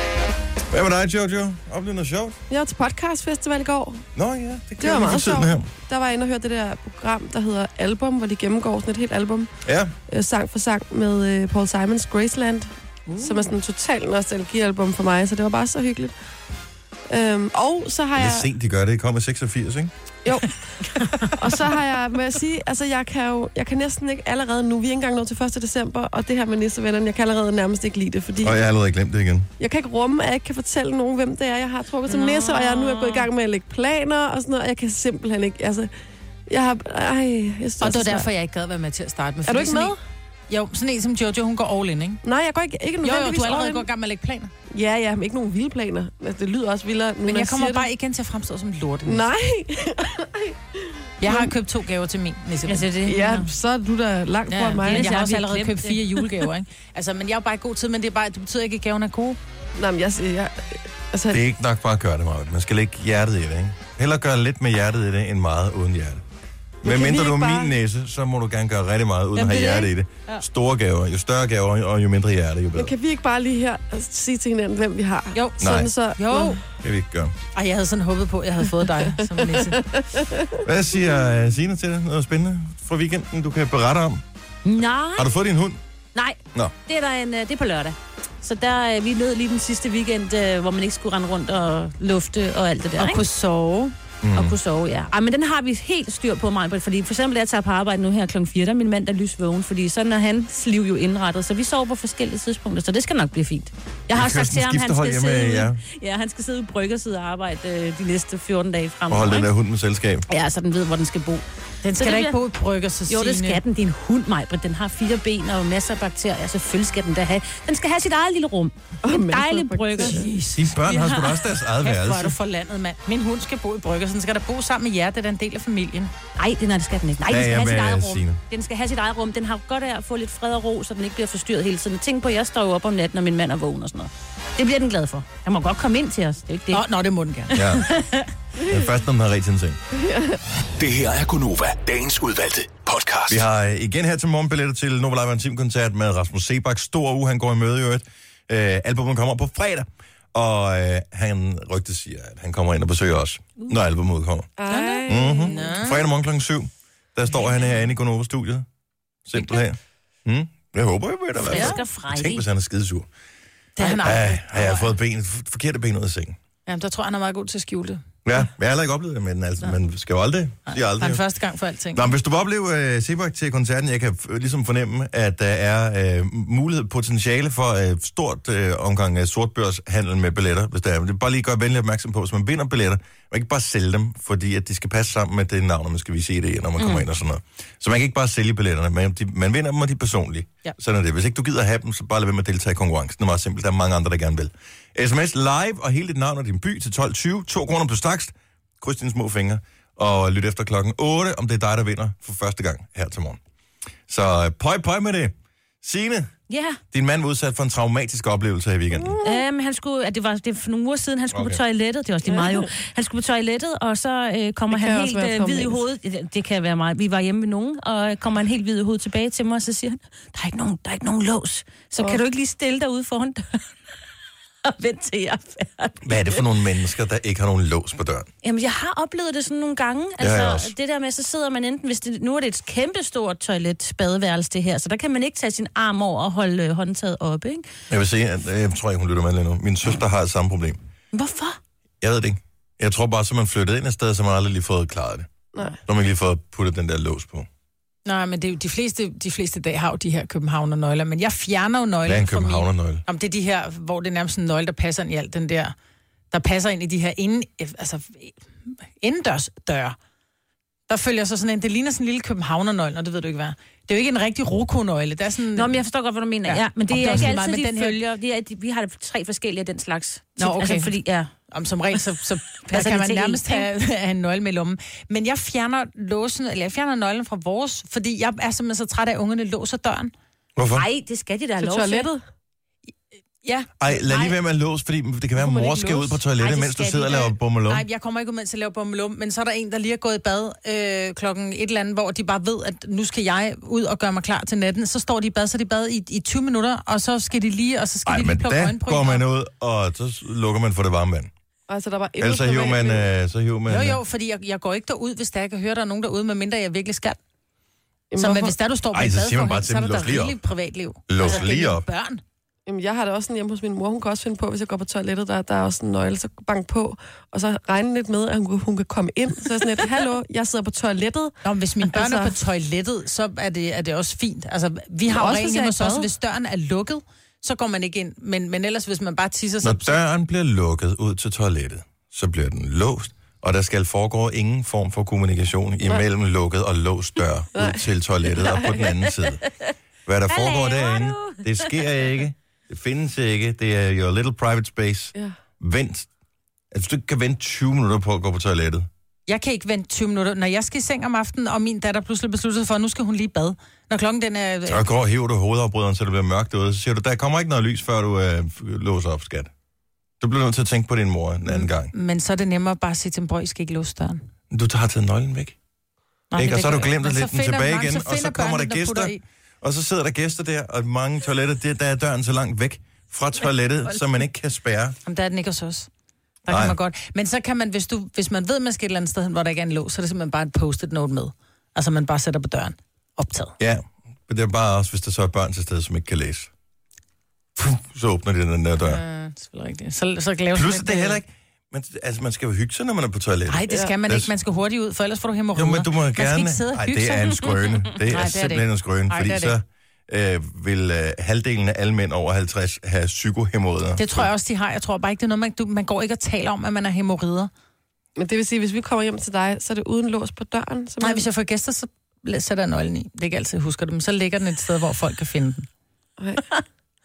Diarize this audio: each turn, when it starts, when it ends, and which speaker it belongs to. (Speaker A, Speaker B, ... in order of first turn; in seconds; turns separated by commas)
Speaker A: 0.7-2.4, Speaker B: 2.5-4.0, Speaker A: 4.2-5.7, Speaker B: 4.8-9.5, Speaker A: 9.6-9.9, Speaker B: 10.1-16.1, Speaker B: 17.1-18.5, Speaker A: 18.1-19.9, Speaker B: 20.2-20.5, Speaker B: 21.3-28.6, Speaker A: 28.4-29.5, Speaker B: 29.6-35.9, Speaker C: 32.1-33.2, Speaker B: 36.5-38.3, Speaker D: 37.8-40.0, Speaker B: 39.5-40.0, Speaker D: 40.5-42.2, Speaker B: 42.2-43.9, Speaker D: 43.0-44.5, Speaker B: 44.7-47.9, Speaker D: 47.2-49.3, Speaker B: 49.0-51.5, Speaker D: 51.2-52.9, Speaker C: 52.6-53.5, Speaker B: 53.1-55.2, Speaker D: 54.5-59.4, Speaker C: 54.7-56.0, Speaker B: 59.8-61.4, Speaker A: 61.3-66.2, Speaker B: 66.8-67.7, Speaker A: 66.8-72.9, Speaker D: 69.4-70.4, Speaker B: 72.8-76.6, Speaker D: 75.3-76.6, Speaker A: 75.6-75.9, Speaker A: 76.8-77.3, Speaker D: 77.5-79.8, Speaker B: 79.0-80.6, Speaker A: 80.6-84.2, Speaker C: 84.6-85.3, Speaker A: 85.2-85.8, Speaker C: 86.1-93.2, Speaker D: 93.0-93.9, Speaker A: 94.2-94.6, Speaker C: 94.3-109.5, Speaker A: 104.1-105.8, Speaker A: 109.1-110.2, Speaker C: 110.3-112.4, Speaker D: 111.8-113.6, Speaker C: 113.1-120.3, Speaker B: 119.0-120.3, Speaker D: 120.0-126.1, Speaker A: 120.5-122.4, Speaker C: 126.4-136.8, Speaker A: 127.3-128.4, Speaker D: 136.7-137.6, Speaker A: 137.5-137.8, Speaker C: 137.5-138.3, Speaker A: 138.6-139.8, Speaker B: 139.9-140.4, Speaker E: 140.8-143.4, Speaker A: 143.3-154.5, Speaker B: 154.6-155.7, Speaker D: 154.7-156.0, Speaker A: 155.1-158.7, Speaker A: 159.2-163.1, Speaker C: 161.4-162.4, Speaker D: 163.8-164.9, Speaker A: 163.8-166.4, Speaker D: 166.7-168.0, Speaker A: 168.2-171.2, Speaker D: 170.7-172.1, Speaker A: 171.9-203.4, Speaker C: 186.8-187.1, Speaker A: 204.1-206.3, Speaker C: 206.5-206.8, Speaker A: 206.9-209.2, Speaker B: 209.0-209.4, Speaker C: 209.2-223.6, Speaker A: 211.3-211.6, Speaker B: 212.3-212.7, Speaker B: 214.7-215.8, Speaker C: 224.6-226.1, Speaker A: 226.0-228.3, Speaker C: 228.4-237.7, Speaker A: 230.2-230.7, Speaker A: 237.9-240.8, Speaker C: 241.1-241.6, Speaker A: 242.0-245.3, Speaker A: 245.8-247.5, Speaker D: 248.1-255.7, Speaker A: 252.1-253.0, Speaker D: 256.3-259.9, Speaker D: 260.9-265.7, Speaker C: 265.5-271.3, Speaker D: 266.5-268.0, Speaker D: 270.4-280.1, Speaker C: 272.7-273.7, Speaker A: 280.6-280.9, Speaker C: 280.7-282.1, Speaker B: 281.6-282.2, Speaker D: 283.4-284.3, Speaker A: 283.8-287.8, Speaker B: 285.4-285.9, Speaker C: 286.4-287.3, Speaker D: 287.7-299.2, Speaker A: 298.1-301.3, Speaker B: 301.7-303.1, Speaker A: 302.2-304.0, Speaker D: 303.7-307.2, Speaker B: 308.1-308.6, Speaker D: 308.2-312.2, Speaker A: 308.9-310.4, Speaker A: 311.1-311.9, Speaker B: 312.7-322.4, Speaker D: 321.4-329.9, Speaker B: 325.1-326.1, Speaker A: 329.6-339.4, Speaker B: 337.6-338.7, Speaker C: 339.5-339.7, Speaker A: 340.1-346.1, Speaker C: 340.3-341.9, Speaker A: 346.7-348.9, Speaker D: 349.3-354.8, Speaker A: 354.7-359.5, Speaker A: 360.2-361.9, Speaker D: 361.5-364.2, Speaker A: 364.5-365.6, Speaker D: 366.3-369.2, Speaker A: 366.4-374.9, Speaker D: 375.1-375.9, Speaker D: 376.4-383.6, Speaker A: 376.5-376.8, Speaker A: 383.6-386.5, Speaker A: 387.6-389.0, Speaker D: 388.8-391.2, Speaker A: 390.6-394.3, Speaker D: 393.5-399.6, Speaker A: 395.5-404.3, Speaker D: 404.0-407.5, Speaker B: 408.2-411.2, Speaker D: 411.0-415.7, Speaker B: 416.2-416.4